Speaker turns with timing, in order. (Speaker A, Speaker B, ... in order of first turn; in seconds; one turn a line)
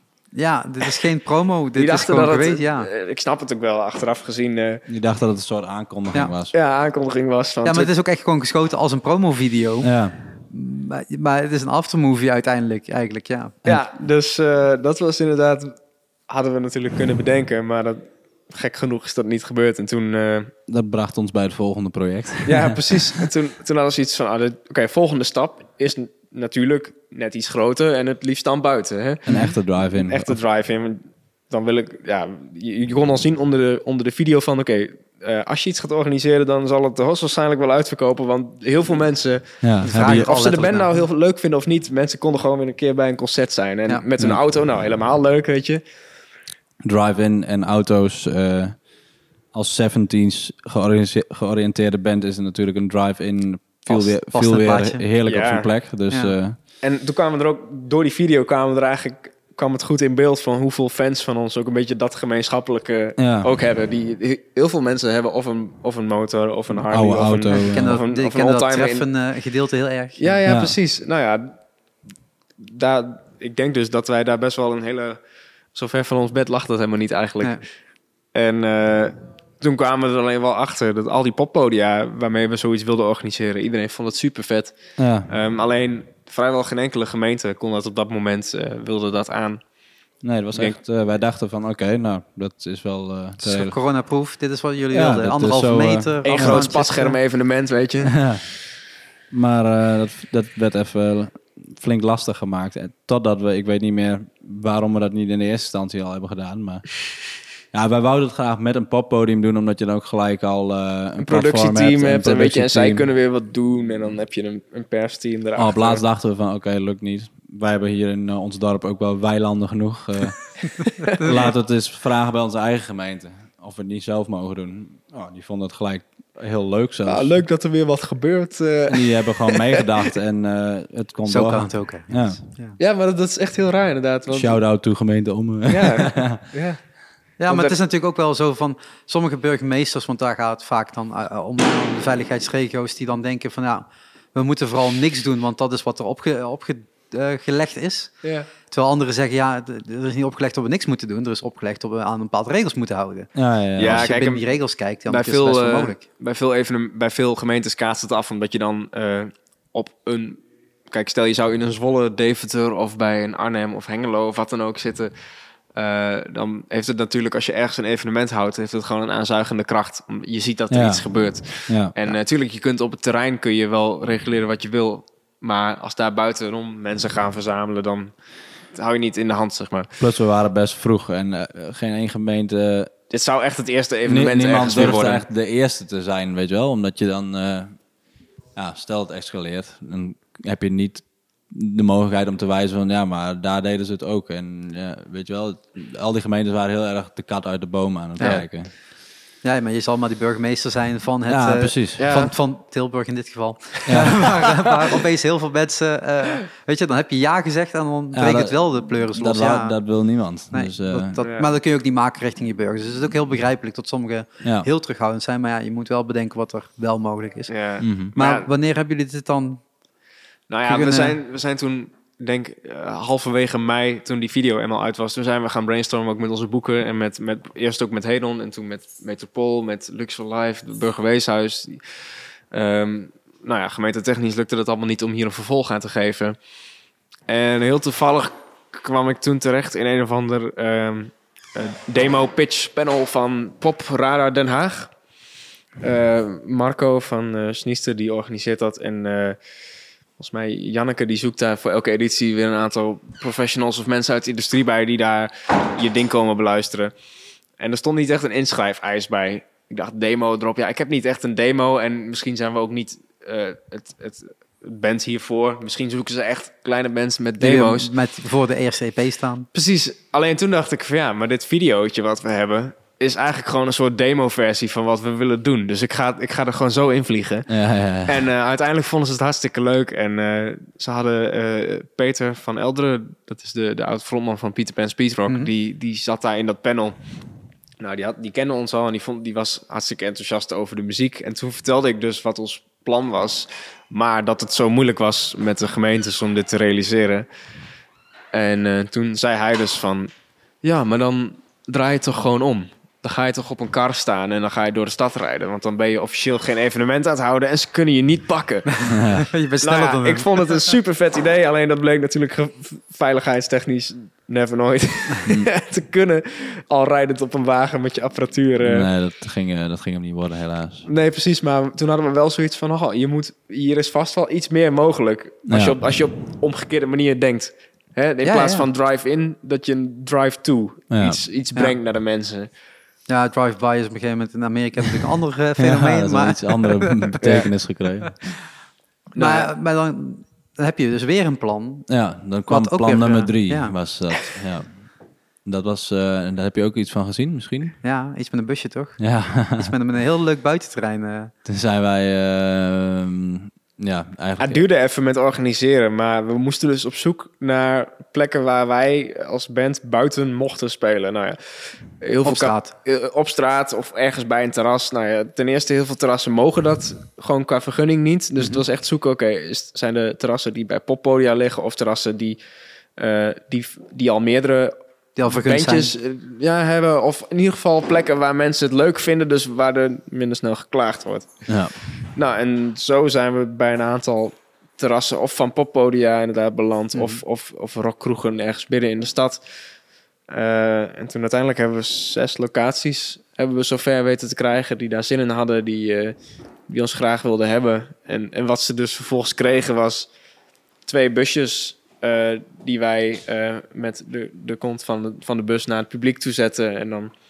Speaker A: 0.3-2.9
Speaker B: 1.8-4.8
Speaker C: 4.9-6.5
Speaker B: 6.5-7.9
Speaker A: 7.7-9.9
Speaker C: 9.8-10.2
Speaker A: 10.5-13.6
Speaker B: 13.7-15.8
Speaker B: 16.3-20.5
Speaker C: 20.7-23.3
Speaker B: 22.5-45.8
Speaker C: 29.3-30.4
Speaker A: 29.3-29.6
Speaker C: 39.6-40.3
Speaker A: 39.8-40.9
Speaker A: 43.9-44.3
Speaker C: 46.9-48.9
Speaker C: 49.5-56.6
Speaker A: 53.9-55.0
Speaker B: 55.2-55.7
Speaker A: 56.1-56.4
Speaker B: 56.8-69.0
Speaker C: 63.2-63.5
Speaker C: 66.9-68.0
Speaker A: 67.6-70.4
Speaker B: 70.2-71.6
Speaker C: 70.5-70.8
Speaker B: 72.6-75.2
Speaker B: 75.7-77.7
Speaker B: 78.3-89.6
Speaker C: 85.0-85.3
Speaker C: 90.2-93.8
Speaker A: 93.4-97.2
Speaker C: 94.9-96.7
Speaker B: 96.2-98.3
Speaker C: 98.1-98.5
Speaker C: 99.3-113.1
Speaker B: 111.2-116.1
Speaker C: 115.6-127.4
Speaker B: 127.1-130.1
Speaker C: 128.9-132.4
Speaker A: 131.3-132.8
Speaker B: 132.8-134.6
Speaker C: 134.3-136.4
Speaker B: 135.7-136.8
Speaker A: 137.4-156.0
Speaker B: 137.5-137.8
Speaker B: 148.2-148.5
Speaker C: 153.3-154.1
Speaker B: 153.8-154.6
Speaker B: 155.1-165.1
Speaker B: 165.8-178.1
Speaker C: 170.7-171.1
Speaker C: 171.7-171.9
Speaker B: 178.7-180.0
Speaker C: 180.0-182.9
Speaker B: 183.1-185.2
Speaker C: 184.1-187.8
Speaker C: 188.6-198.7
Speaker A: 198.2-198.8
Speaker A: 199.4-209.8
Speaker C: 201.3-202.2
Speaker B: 202.0-202.3
Speaker C: 203.9-204.3
Speaker C: 208.1-211.2
Speaker A: 210.5-219.7
Speaker B: 211.2-211.5
Speaker C: 214.4-214.7
Speaker B: 217.5-218.5
Speaker C: 217.8-218.1
Speaker B: 220.5-236.4
Speaker A: 220.7-221.2
Speaker B: 237.3-244.9
Speaker B: 245.8-249.4
Speaker B: 250.2-256.9
Speaker B: 257.6-267.9
Speaker A: 267.4-269.5
Speaker B: 269.5-287.0
Speaker C: 277.5-278.2
Speaker B: 287.8-297.3
Speaker B: 298.3-300.1
Speaker B: 300.6-308.9
Speaker A: 308.9-310.7
Speaker C: 308.9-309.3
Speaker B: 309.6-318.9
Speaker C: 318.6-320.9
Speaker B: 320.9-332.5
Speaker C: 325.5-325.8
Speaker A: 328.2-328.7
Speaker C: 330.9-331.2
Speaker A: 333.1-337.1
Speaker C: 335.6-338.4
Speaker B: 337.2-337.5
Speaker B: 339.1-339.5
Speaker A: 339.2-341.9
Speaker C: 341.9-344.9
Speaker A: 342.5-343.7
Speaker C: 345.4-347.8
Speaker A: 347.8-351.3
Speaker C: 349.0-349.7
Speaker C: 351.4-354.6
Speaker B: 354.4-372.4
Speaker A: 362.2-362.7
Speaker A: 368.4-368.6
Speaker B: 373.0-374.8
Speaker A: 375.2-375.9
Speaker B: 375.3-389.6
Speaker C: 381.5-381.8
Speaker A: 386.9-387.2
Speaker B: 390.3-396.2
Speaker B: 396.7-400.1
Speaker B: 400.9-407.1